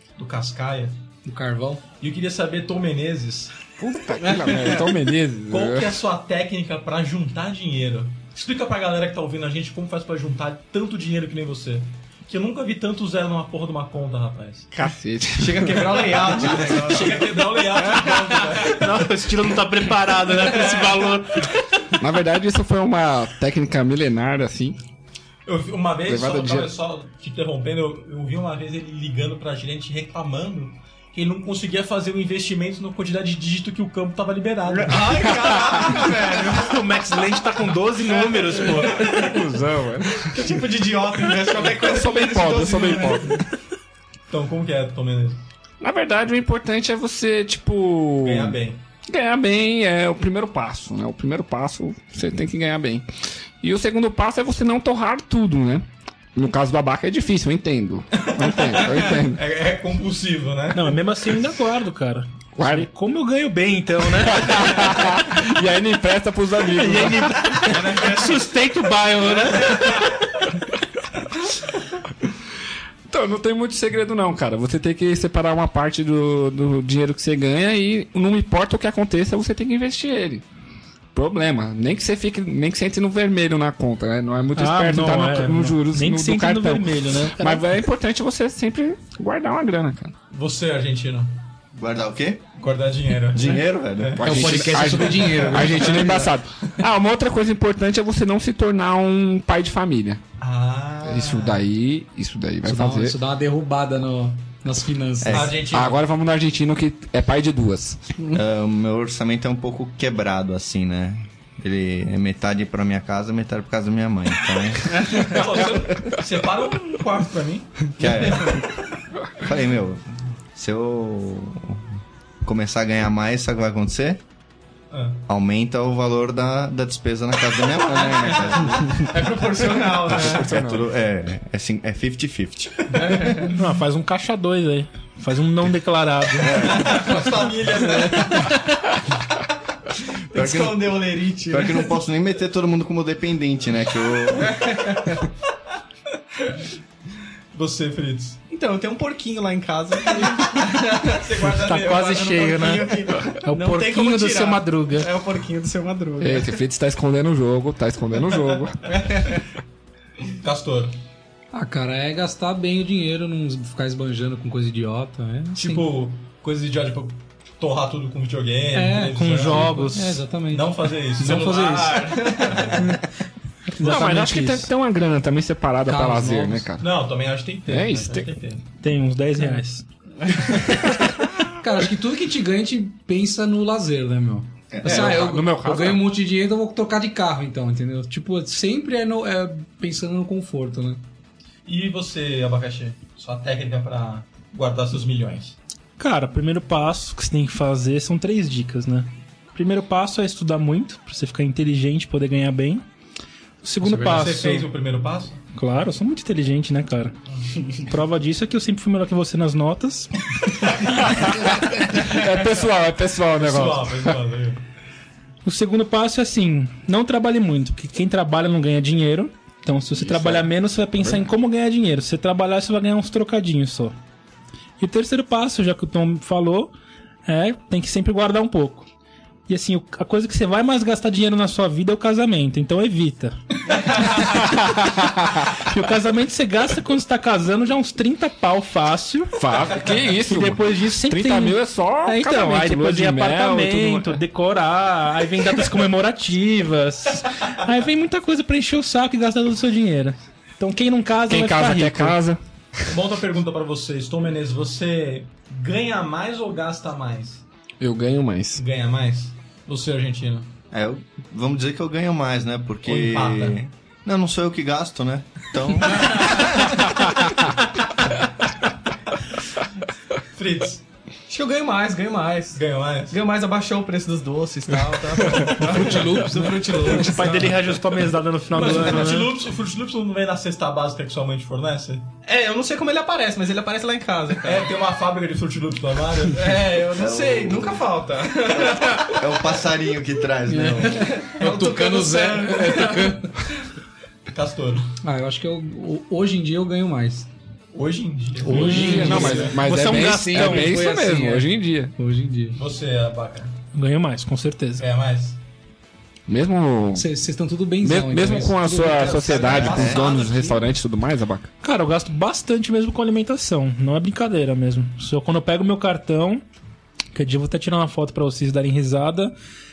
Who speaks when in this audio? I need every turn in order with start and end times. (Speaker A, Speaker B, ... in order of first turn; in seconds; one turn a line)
Speaker A: 0.2-1.0
Speaker B: 1.2-1.8
Speaker A: 2.0-3.5
Speaker C: 3.8-6.0
Speaker D: 4.3-4.6
Speaker A: 4.5-4.8
Speaker A: 5.5-14.7
Speaker C: 14.7-17.0
Speaker D: 15.4-17.3
Speaker A: 16.4-19.2
Speaker E: 18.7-21.6
Speaker A: 20.3-21.4
Speaker C: 22.0-24.8
Speaker A: 25.4-36.2
Speaker C: 26.1-26.7
Speaker D: 34.7-36.8
Speaker E: 36.4-39.1
Speaker A: 38.1-39.3
Speaker C: 39.0-40.4
Speaker D: 40.3-43.4
Speaker A: 41.2-41.7
Speaker C: 41.6-43.4
Speaker A: 44.3-45.4
Speaker C: 45.8-48.6
Speaker A: 48.2-48.8
Speaker C: 49.1-53.0
Speaker C: 53.6-59.4
Speaker A: 58.2-61.0
Speaker E: 60.7-65.2
Speaker C: 62.5-62.9
Speaker C: 64.2-68.0
Speaker E: 66.7-70.2
Speaker A: 67.7-68.5
Speaker A: 69.5-70.0
Speaker C: 73.1-80.4
Speaker C: 81.1-90.1
Speaker E: 84.5-87.6
Speaker A: 90.3-91.3
Speaker F: 91.7-92.4
Speaker A: 92.5-96.0
Speaker F: 93.3-94.2
Speaker C: 94.2-100.2
Speaker B: 94.2-96.3
Speaker A: 100.4-101.6
Speaker C: 101.0-103.2
Speaker B: 102.6-105.5
Speaker F: 105.2-105.6
Speaker A: 105.3-106.0
Speaker C: 105.7-108.0
Speaker F: 108.3-115.0
Speaker D: 115.0-115.4
Speaker A: 115.1-118.6
Speaker F: 118.0-118.6
Speaker F: 119.4-124.2
Speaker A: 124.9-125.2
Speaker F: 125.3-129.5
Speaker D: 129.1-130.4
Speaker F: 130.1-132.9
Speaker C: 130.2-130.8
Speaker A: 132.9-133.3
Speaker D: 133.0-133.5
Speaker E: 133.5-136.9
Speaker F: 136.4-137.2
Speaker A: 136.7-138.6
Speaker D: 140.3-141.9
Speaker F: 140.3-144.7
Speaker D: 144.6-145.1
Speaker A: 147.5-148.4
Speaker D: 148.5-151.2
Speaker A: 150.4-153.3
Speaker E: 151.6-155.1
Speaker D: 152.5-156.5
Speaker C: 156.2-158.9
Speaker D: 158.9-159.3
Speaker A: 160.4-160.9
Speaker B: 161.5-165.8
Speaker A: 165.5-169.9
Speaker B: 168.7-172.2
Speaker E: 169.1-170.2
Speaker A: 170.5-172.9
Speaker D: 171.4-172.8
Speaker E: 173.8-174.7
Speaker C: 173.8-176.8
Speaker B: 175.9-176.7
Speaker A: 176.8-178.6
Speaker C: 177.7-178.3
Speaker E: 178.8-179.8
Speaker B: 181.4-191.0
Speaker F: 184.7-185.2
Speaker C: 184.8-186.1
Speaker A: 191.7-195.6
Speaker E: 196.0-202.8
Speaker E: 203.6-204.7
Speaker B: 203.8-204.2
Speaker A: 204.0-205.4
Speaker E: 205.6-207.1
Speaker A: 207.3-207.6
Speaker E: 207.7-210.1
Speaker C: 211.0-214.2
Speaker A: 213.4-214.6
Speaker E: 215.4-223.9
Speaker C: 220.1-220.4
Speaker E: 224.8-226.7
Speaker E: 227.2-228.9
Speaker E: 229.5-234.4
Speaker C: 234.4-235.5
Speaker E: 235.6-239.3
Speaker C: 239.3-244.2
Speaker E: 240.2-252.2
Speaker C: 251.3-252.4
Speaker A: 252.9-257.4
Speaker C: 257.8-258.6
Speaker A: 258.6-260.5
Speaker F: 260.7-266.5
Speaker A: 262.8-263.6
Speaker A: 270.4-270.8
Speaker D: 271.3-277.6
Speaker A: 272.5-273.2
Speaker A: 275.2-276.0
Speaker B: 275.8-277.0
Speaker E: 276.8-279.3
Speaker A: 278.5-282.1
Speaker D: 282.2-284.7
Speaker A: 284.4-286.6
Speaker D: 286.3-289.2
Speaker F: 286.9-287.9
Speaker F: 288.6-291.2
Speaker B: 290.5-293.3
Speaker D: 291.0-293.2
Speaker A: 294.3-294.9
Speaker B: 295.0-297.3
Speaker A: 297.7-299.6
Speaker E: 298.4-300.8
Speaker B: 298.4-302.6
Speaker C: 298.5-301.9
Speaker A: 302.6-303.6
Speaker E: 303.7-304.8
Speaker A: 304.8-305.4
Speaker C: 306.3-307.1
Speaker B: 306.9-309.5
Speaker C: 307.8-311.5
Speaker A: 308.9-310.7
Speaker F: 309.3-310.1
Speaker E: 311.6-316.4
Speaker E: 317.1-319.3